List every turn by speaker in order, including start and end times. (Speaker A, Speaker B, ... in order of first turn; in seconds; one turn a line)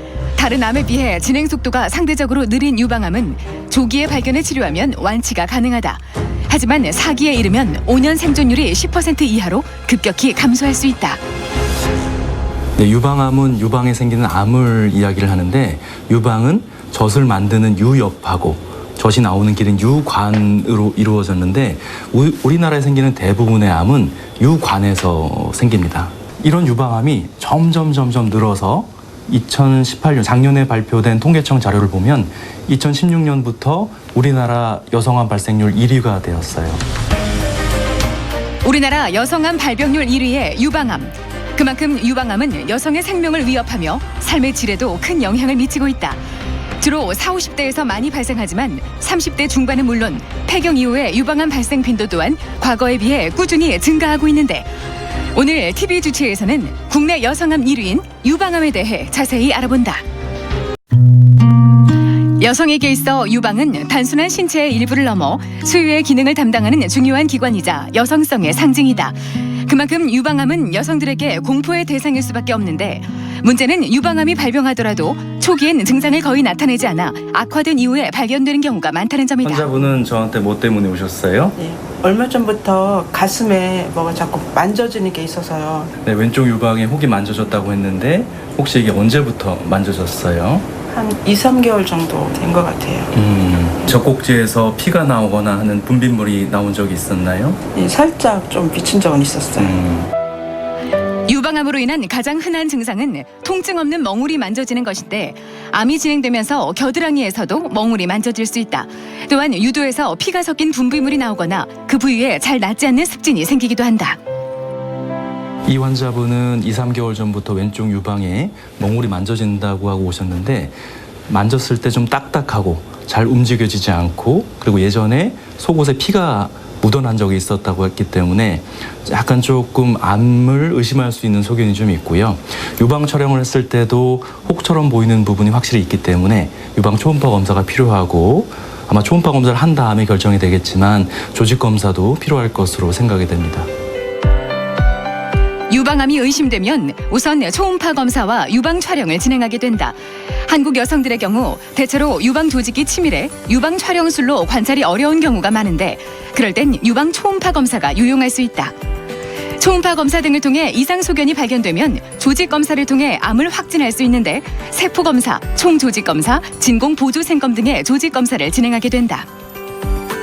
Speaker A: 0.4-11.2
Speaker B: 12.8-36.8
Speaker A: 38.6-46.2
Speaker A: 46.8-54.7
Speaker A: 55.3-60.0
Speaker A: 62.2-79.7
Speaker B: 79.4-81.6
Speaker C: 81.6-85.9
Speaker B: 86.0-90.7
Speaker C: 90.9-93.1
Speaker B: 93.1-97.6
Speaker C: 97.8-99.7
Speaker B: 99.6-100.1
Speaker A: 101.3-114.2
Speaker B: 115.7-120.8
Speaker B: 121.3-143.7
Speaker A: 145.7-158.8
Speaker A: 159.6-169.3